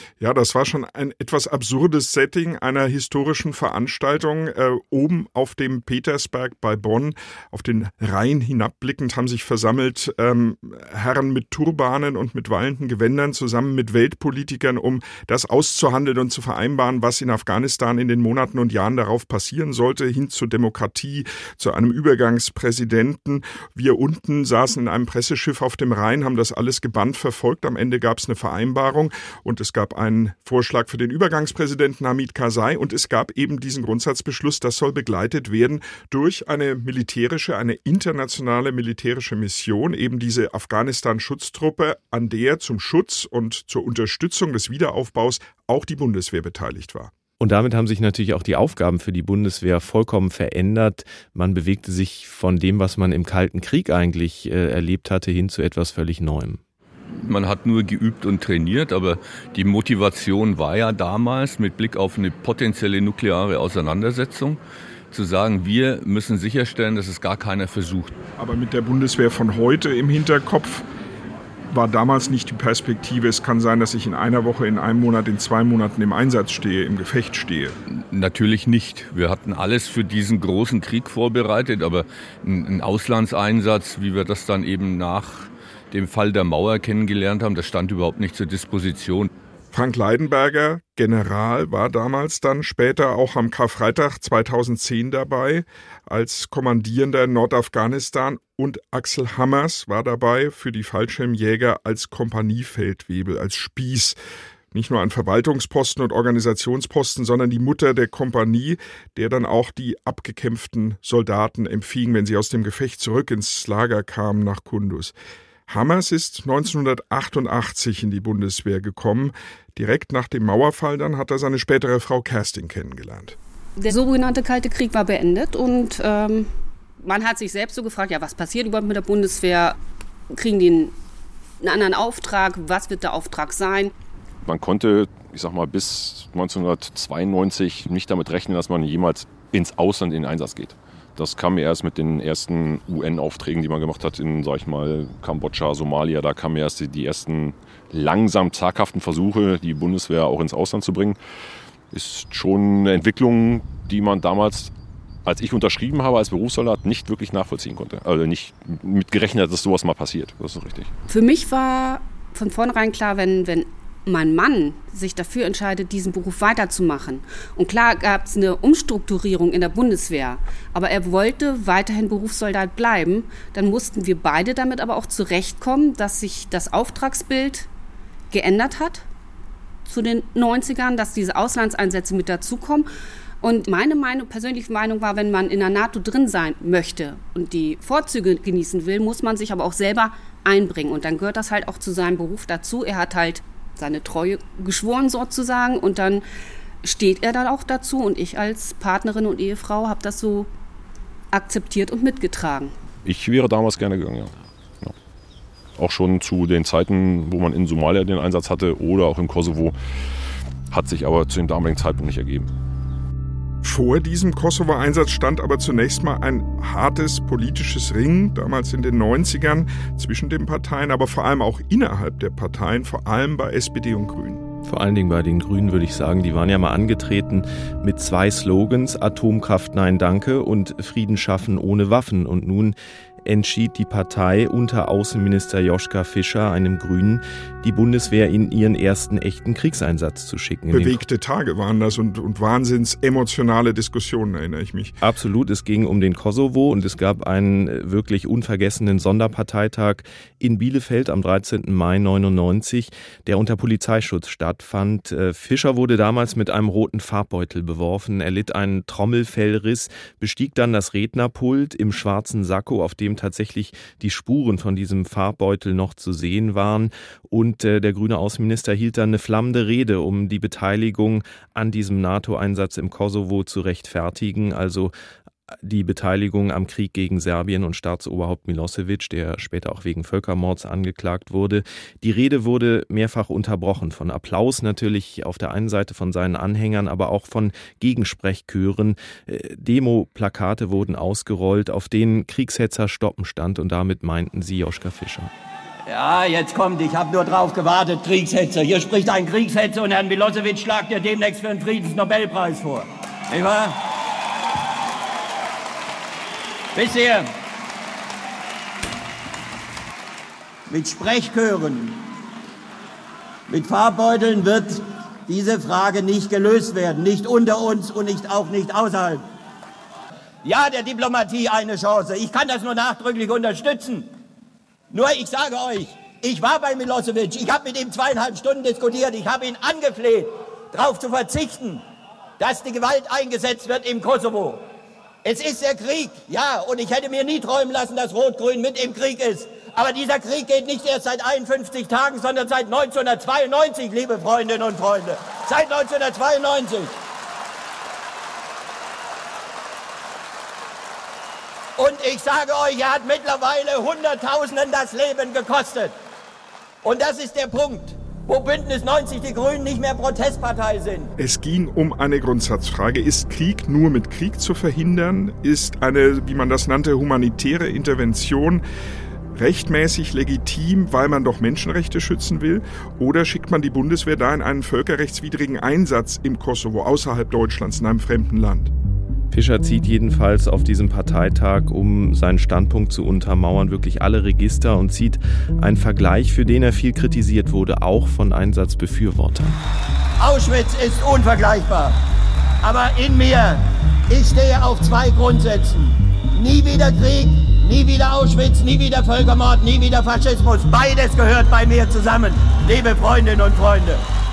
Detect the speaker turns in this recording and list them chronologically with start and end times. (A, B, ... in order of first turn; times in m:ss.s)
0:00.2-0:47.1 A
0:47.4-0:56.6 B
0:57.1-1:04.6 C
1:05.1-1:08.1 C
1:08.4-1:10.9 A
1:11.7-1:17.8 A
1:17.9-1:29.3 C
1:29.7-1:44.2 A
1:44.7-1:55.1 A
1:55.7-2:03.4 A
2:03.8-2:06.5 D
2:07.0-2:09.8 D
2:10.3-2:11.0 D
2:11.6-2:13.9 D
2:14.4-2:31.2 E
2:31.9-2:34.7 E
2:35.2-2:40.9 E
2:41.1-2:57.7 D
2:58.3-2:59.1 D
2:59.9-3:02.9 D
3:03.4-3:16.3 D
3:16.8-3:20.5 D
3:21.3-3:22.8 D
3:23.0-3:24.3 E
3:25.8-3:29.8 E
3:30.7-3:32.5 E
3:33.6-3:44.4 A
3:44.6-4:01.0 B
4:00.7-4:05.0 A
4:05.0-4:34.9 B
4:35.6-4:55.3 B
4:55.9-5:02.7 F
5:06.8-5:07.1 F
5:10.8-5:11.5 F
5:13.5-5:14.7 F
5:15.4-5:19.2 F
5:20.7-5:23.9 F
5:25.1-5:30.2 F
5:30.8-5:31.6 F
5:32.4-5:34.5 F
5:35.3-5:46.8 F
5:51.8-5:55.9 F
5:56.8-6:01.1 F
6:01.2-6:08.6 A
6:09.3-6:18.7 A
6:19.3-6:29.6 B
6:30.2-6:31.9 F
6:32.6-6:33.6 F
6:34.1-6:44.0 F